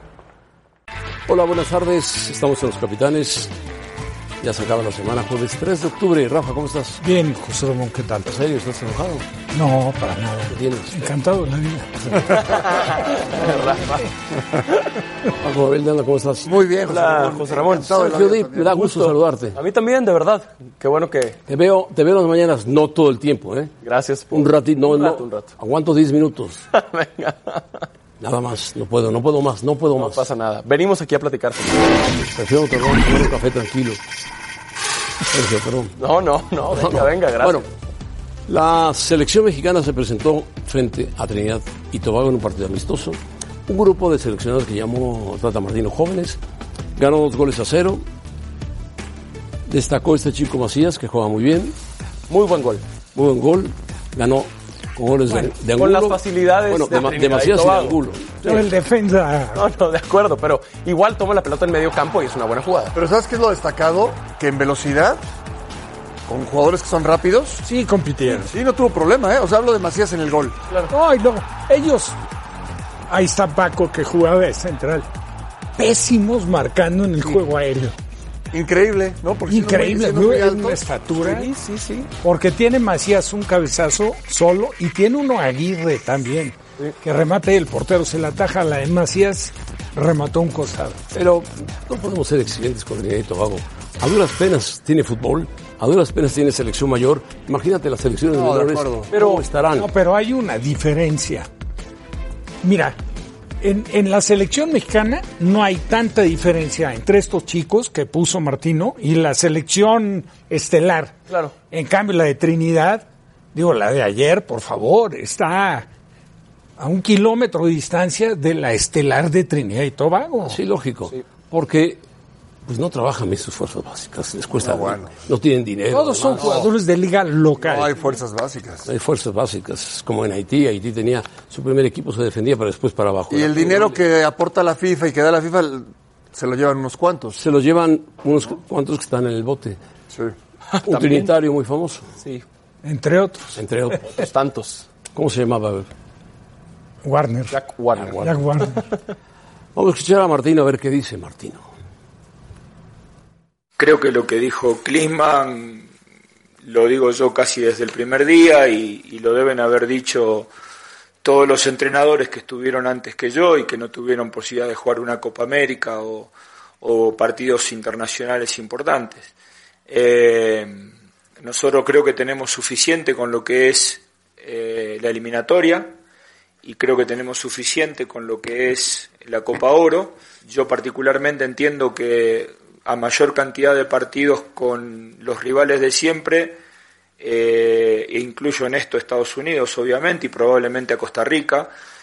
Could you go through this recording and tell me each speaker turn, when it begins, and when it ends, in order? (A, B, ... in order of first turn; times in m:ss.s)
0:01.3-0:03.5 A
0:04.4-0:07.0 A
0:07.0-0:08.3 B
0:08.2-0:09.3 A
0:09.5-0:12.2 B
0:10.5-0:11.1 A
0:12.4-0:14.0 C
0:15.4-0:16.6 A
0:16.4-0:18.9 D
0:16.8-0:18.2 C
0:17.9-0:19.6 A
0:18.8-0:21.4 C
0:21.5-0:23.7 A
0:23.8-0:25.5 C
0:24.3-0:26.6 A
0:26.7-0:27.9 C
0:28.2-0:30.2 A
0:30.0-0:32.1 C
0:32.2-0:34.0 A
0:35.3-0:36.0 A
0:36.0-0:37.7 C
0:36.7-0:37.7 A
0:38.5-0:46.4 A
0:47.0-0:48.0 A
0:49.7-0:51.8 A
0:52.3-0:52.8 C
0:53.2-0:58.7 A
0:55.7-0:58.0 C
0:58.5-0:59.6 B
0:59.6-1:03.0 C
1:03.0-1:05.2 D
1:06.3-1:07.6 D
1:07.6-1:08.5 B
1:08.4-1:10.6 D
1:10.9-1:12.2 B
1:13.1-1:15.1 B
1:15.8-1:17.9 B
1:18.5-1:20.8 D
1:19.5-1:21.5 B
1:21.2-1:22.1 C
1:22.2-1:31.0 B
1:31.1-1:39.9 A
1:38.3-1:39.1 D
1:39.1-1:39.4 C
1:39.8-1:41.5 B
1:42.6-1:43.0 B
1:43.6-1:51.2 B
1:51.3-1:51.5 C
1:51.7-1:55.9 B
1:56.8-2:00.6 B
2:00.4-2:02.0 A
2:02.6-2:06.6 A
2:04.6-2:05.1 D
2:05.9-2:08.0 B
2:06.4-2:06.7 D
2:07.6-2:08.9 D
2:08.9-2:14.0 A
2:13.3-2:17.4 D
2:17.4-2:19.8 A
2:20.7-2:21.3 C
2:20.8-2:22.1 A
2:22.8-2:23.6 B
2:23.6-2:24.2 A
2:24.1-2:24.9 C
2:25.1-2:25.9 A
2:27.0-2:27.6 B
2:27.5-2:28.3 C
2:28.0-2:28.3 A
2:28.2-2:28.8 B
2:29.8-2:31.6 A
2:33.8-2:35.9 E
2:36.6-2:40.5 E
2:41.2-2:49.3 E
2:49.9-2:50.9 E
2:51.4-2:56.0 E
2:56.6-3:06.6 E
3:07.2-3:11.7 E